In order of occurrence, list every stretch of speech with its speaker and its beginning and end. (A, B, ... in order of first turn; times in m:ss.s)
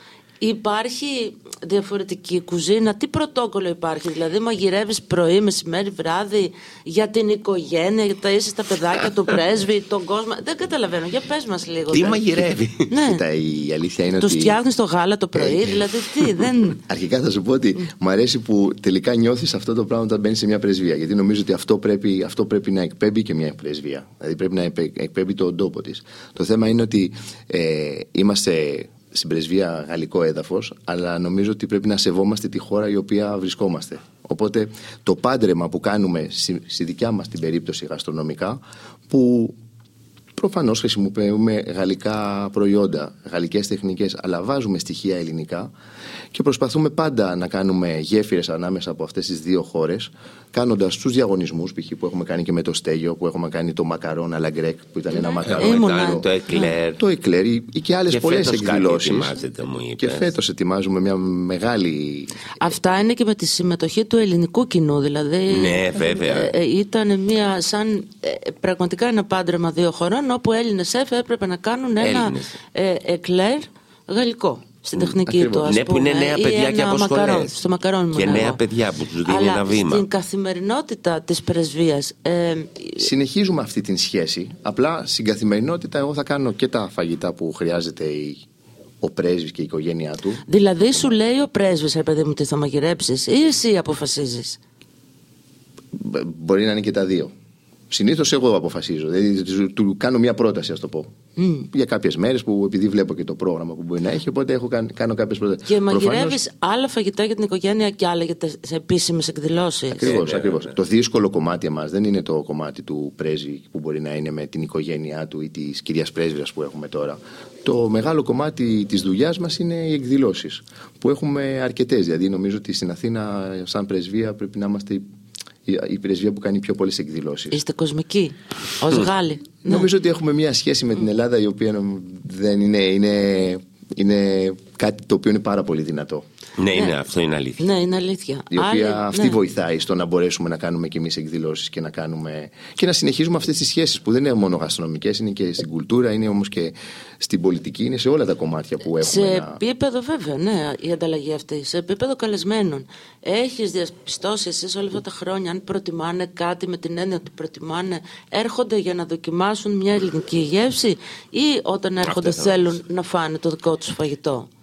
0:00.4-0:12.2 A
0:11.9-0:12.9 B
0:12.9-0:13.2 A
0:12.9-0:14.6 C
0:14.1-0:16.8 A
0:15.3-0:15.9 C
0:16.8-0:39.6 C
0:40.4-0:45.7 C
0:46.3-0:56.3 C
0:55.1-0:56.7 A
0:55.4-0:57.0 B
0:57.0-0:59.3 C
0:58.1-1:00.3 B
1:00.0-1:02.3 C
1:02.6-1:18.6 A
1:05.5-1:06.5 B
1:12.0-1:12.5 B
1:15.1-1:15.8 C
1:15.6-1:17.6 B
1:18.1-1:20.0 B
1:19.2-1:23.0 A
1:23.0-1:28.4 C
1:29.0-1:30.4 C
1:30.5-1:34.6 A
1:35.9-1:37.3 C
1:37.9-1:41.1 C
1:41.4-1:41.7 A
1:41.7-1:46.4 C
1:45.6-1:50.1 A
1:49.9-2:05.0 C
1:50.0-1:50.7 B
2:05.6-2:07.6 C
2:07.5-2:09.9 A
2:09.6-2:16.2 C
2:16.6-2:17.7 B
2:17.6-2:19.4 A
2:18.5-2:29.6 C
2:29.0-2:44.5 A
2:42.0-2:42.8 B